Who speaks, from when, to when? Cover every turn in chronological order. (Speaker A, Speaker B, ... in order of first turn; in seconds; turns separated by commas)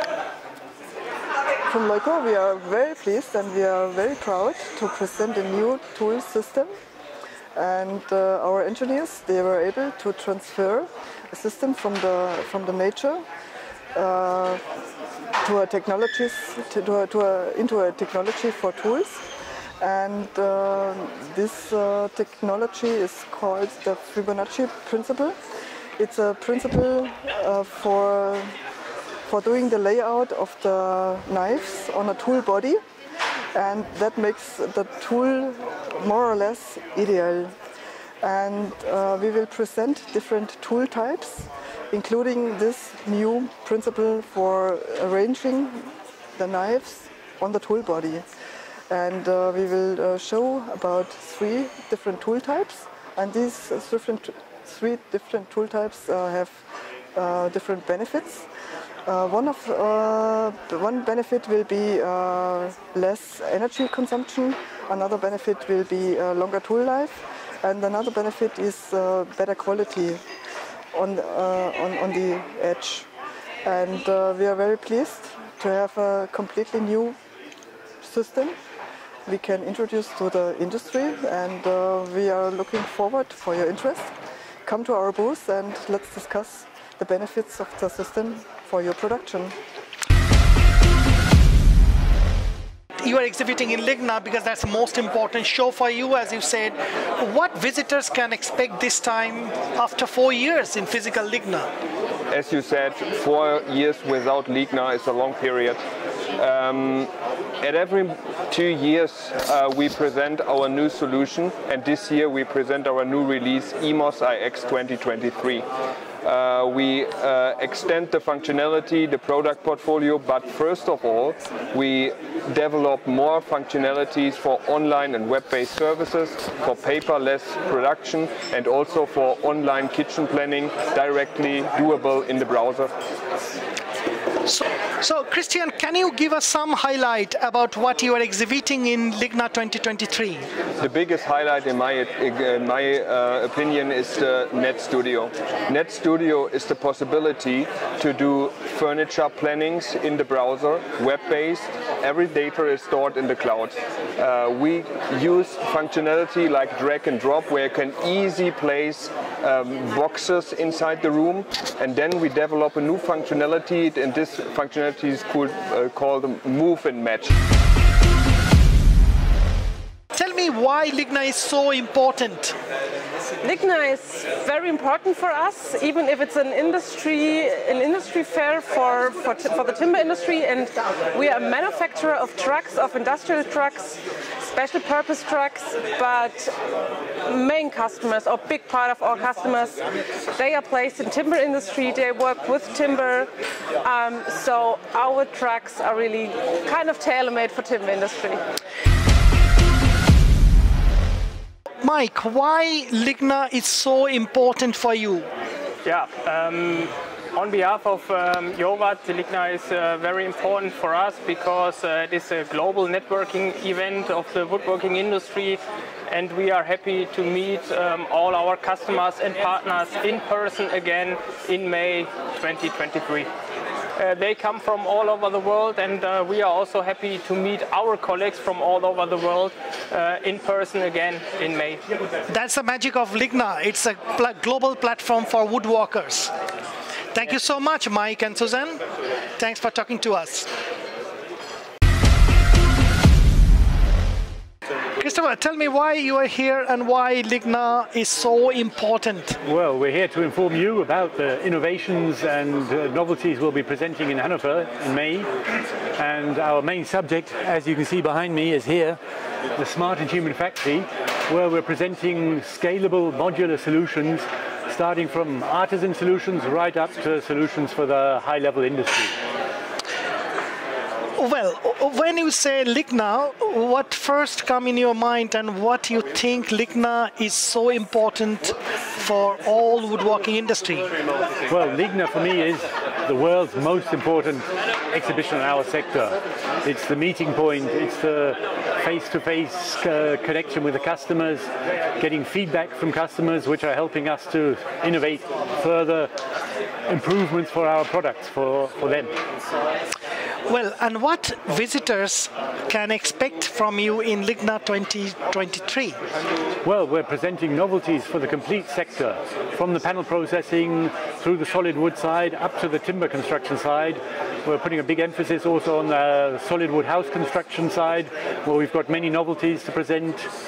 Speaker A: 1.7-6.7, Speaker A: 7.5-13.2, Speaker A: 13.9-14.6, Speaker A: 15.4-19.2, Speaker A: 19.8-25.4, Speaker A: 26.0-28.5, Speaker A: 29.3-32.8, Speaker A: 33.5-37.5, Speaker A: 38.2-45.8, Speaker A: 46.4-48.2, Speaker A: 48.9-56.5, Speaker A: 57.1-58.4, Speaker A: 59.0-70.2, Speaker A: 70.9-73.1, Speaker A: 73.6-77.2, Speaker A: 78.0-78.5, Speaker A: 79.3-84.1, Speaker A: 84.7-89.5, Speaker B: 93.0-101.7, Speaker C: 102.3-105.8, Speaker C: 106.4-107.1, Speaker C: 107.6-115.7, Speaker C: 116.2-132.9, Speaker B: 134.4-140.4, Speaker C: 140.8-167.3, Speaker B: 170.1-172.6, Speaker D: 173.4-183.9, Speaker D: 184.5-186.5, Speaker D: 187.3-189.7, Speaker D: 190.4-193.3, Speaker D: 193.9-198.4, Speaker B: 201.8-205.3, Speaker E: 205.8-223.3, Speaker E: 224.0-231.8, Speaker B: 232.3-236.3, Speaker B: 237.1-238.8, Speaker B: 239.4-240.5, Speaker B: 245.0-249.4, Speaker F: 249.4-255.3, Speaker F: 256.0-259.0, Speaker F: 259.6-269.1, Speaker B: 271.2-280.9, Speaker F: 281.5-291.4, Speaker F: 292.0-296.1, Speaker F: 296.9-299.1, Speaker B: 300.5-306.0, Speaker F: 306.6-320.3